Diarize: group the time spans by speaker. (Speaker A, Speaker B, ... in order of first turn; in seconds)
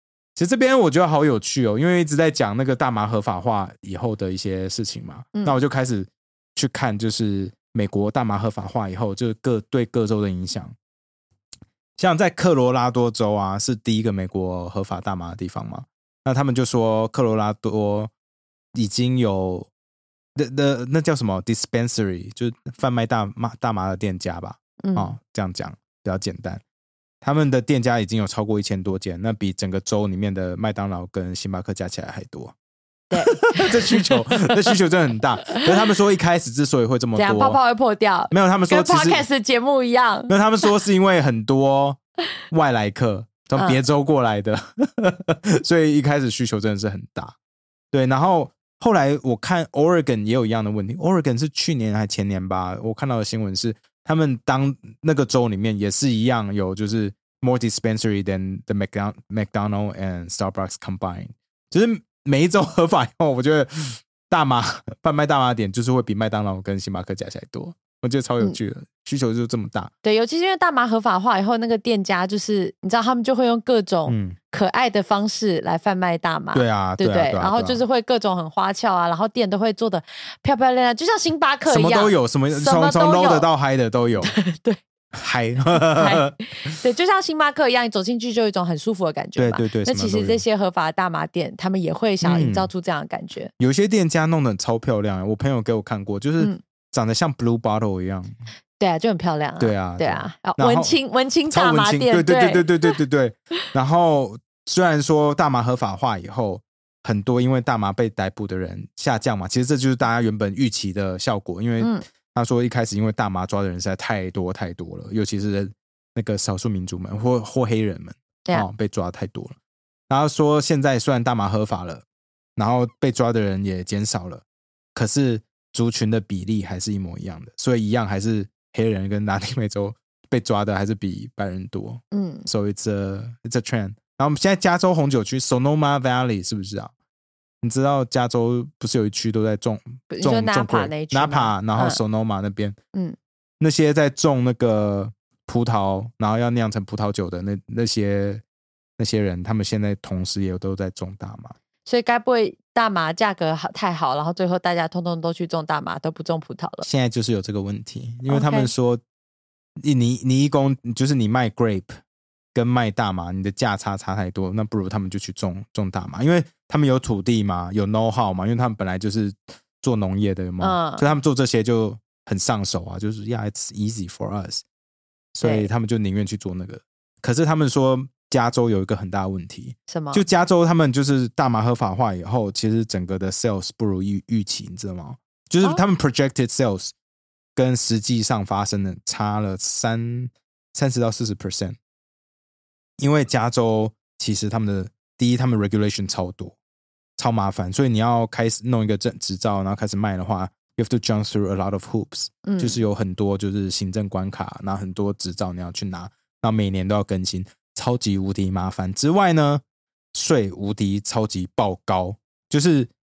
Speaker A: 0.3-10.7, 12.0-18.1, 18.7-19.7, 20.4-26.6, 27.2-32.5, 33.2-37.6, 38.3-39.2, 40.3-47.3, 47.9-69.9, 74.1-74.3, 76.5-77.8, 81.7-84.3, 85.1-86.8, 89.4-90.4, 92.2-92.7, 93.6-98.3, 99.6-101.0, 101.5-119.5, 120.1-122.0, 122.5-124.4, 124.9-136.9, 137.6-142.8, 143.6-148.4, 149.0-151.5, 156.8-159.0, 159.8-162.0, 162.5-174.6, 175.3-186.9, 187.6-191.8, 193.0-196.6, 197.2-209.6, 210.1-212.9
Speaker B: 24.8-25.1, 33.1-34.5, 37.1-40.3, 70.0-83.5, 84.2-84.8, 85.7-93.5, 98.8-102.9, 132.1-132.5, 140.1-142.0, 151.8-156.8, 158.3-158.7, 170.6-171.1, 175.4-175.7, 179.9-180.2, 202.4-202.8